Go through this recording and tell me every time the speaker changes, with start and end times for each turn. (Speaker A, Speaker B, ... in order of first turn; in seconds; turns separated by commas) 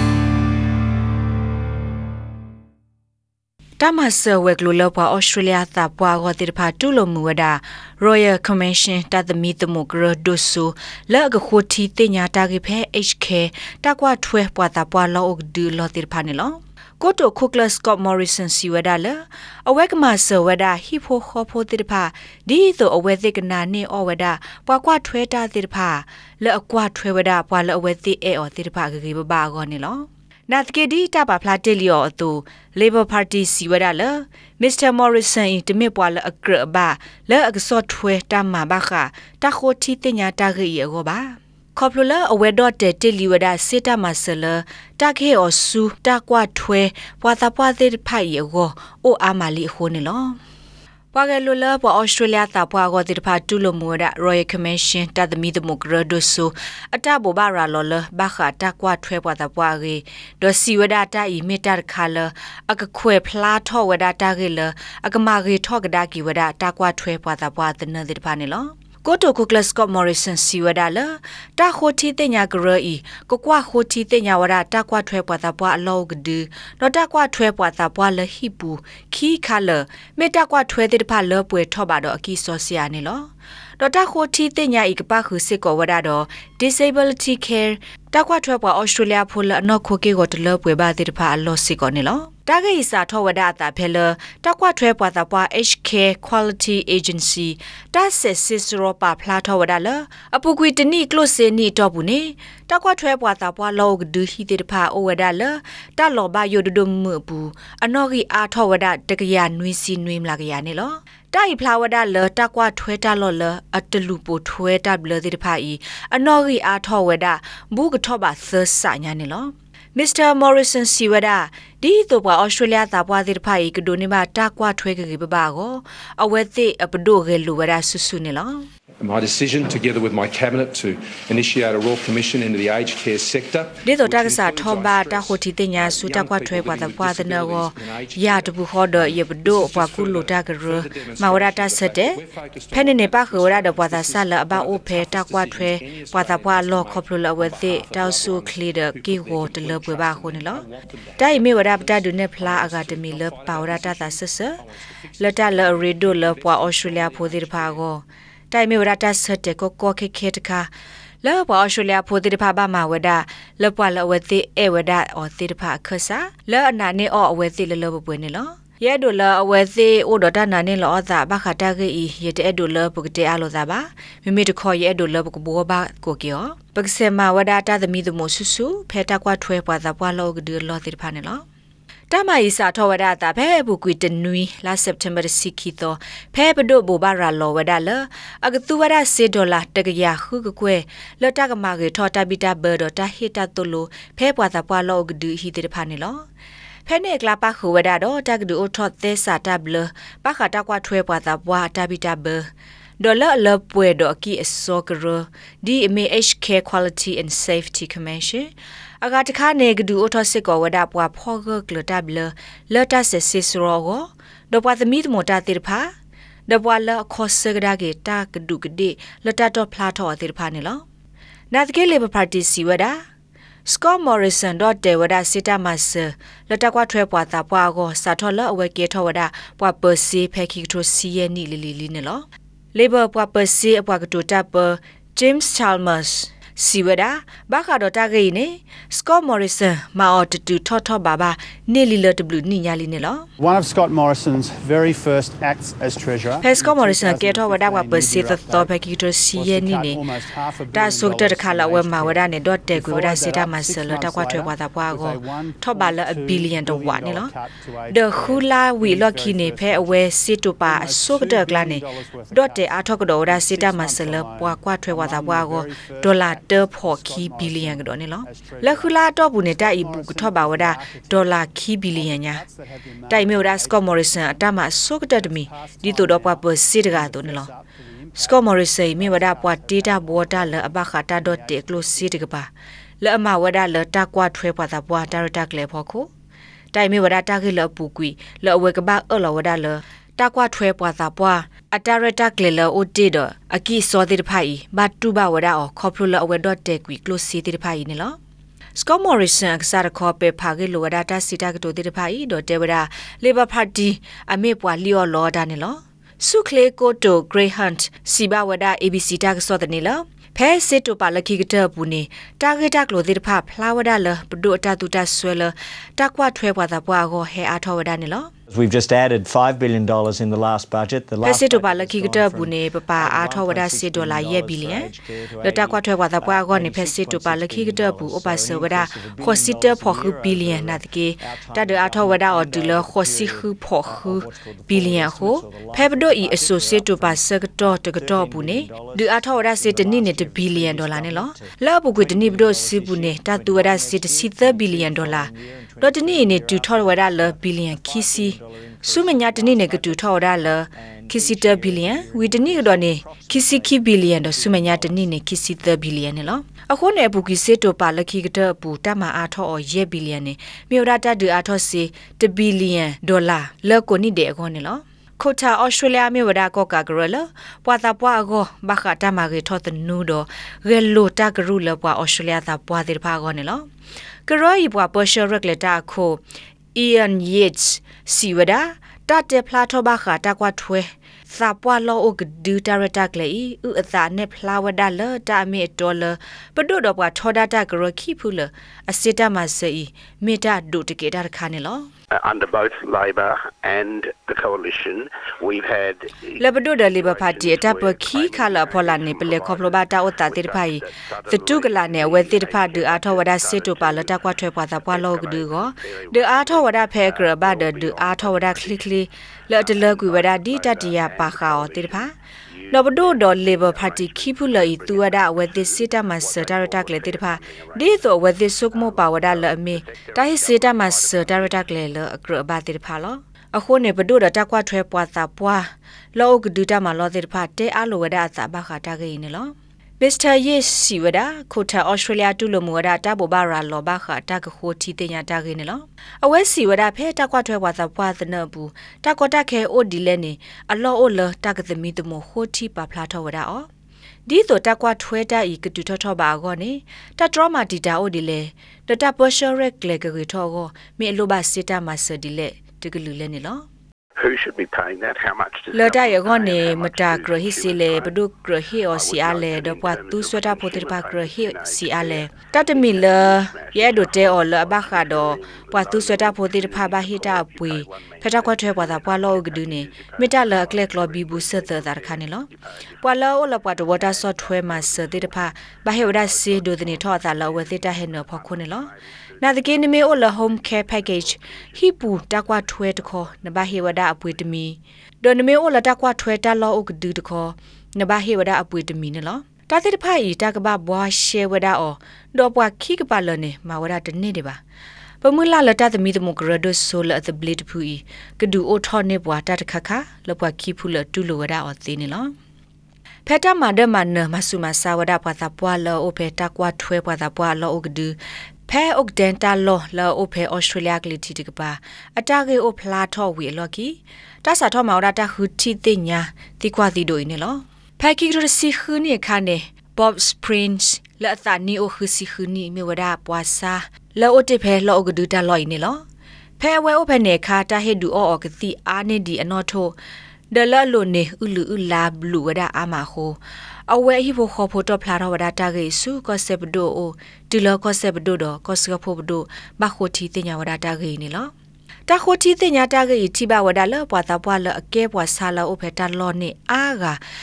Speaker A: 3.8-50.4, Speaker A: 51.1-128.7, Speaker B: 129.0-157.8, Speaker A: 133.8-142.2, Speaker A: 142.7-150.7, Speaker A: 151.2-154.6, Speaker A: 155.2-160.7, Speaker A: 161.2-181.4, Speaker A: 182.1-196.2, Speaker A: 196.9-202.5, Speaker A: 203.0-215.9, Speaker A: 216.5-220.8, Speaker A: 221.5-223.0, Speaker A: 223.7-243.3, Speaker C: 243.4-248.7, Speaker A: 246.4-250.0, Speaker C: 249.3-260.1, Speaker A: 250.7-257.3, Speaker A: 257.9-272.4, Speaker C: 260.6-282.3, Speaker A: 273.1-277.5, Speaker A: 278.2-282.5, Speaker A: 283.0-286.1, Speaker A: 286.7-298.2, Speaker A: 298.8-318.3, Speaker D: 318.5-355.1, Speaker A: 321.2-324.9, Speaker A: 325.4-373.7, Speaker A: 374.3-376.2, Speaker A: 376.8-391.9, Speaker E: 392.1-404.3, Speaker A: 396.4-412.1, Speaker E: 404.8-408.9, Speaker E: 409.6-421.6, Speaker A: 412.7-443.7, Speaker A: 444.3-453.7, Speaker E: 454.2-458.1, Speaker A: 455.7-472.5, Speaker E: 458.9-473.0, Speaker A: 473.0-494.6, Speaker E: 473.8-484.4, Speaker A: 495.2-502.3, Speaker A: 503.3-508.2, Speaker A: 508.7-526.0, Speaker A: 526.6-530.0, Speaker A: 530.5-541.5, Speaker A: 542.1-547.2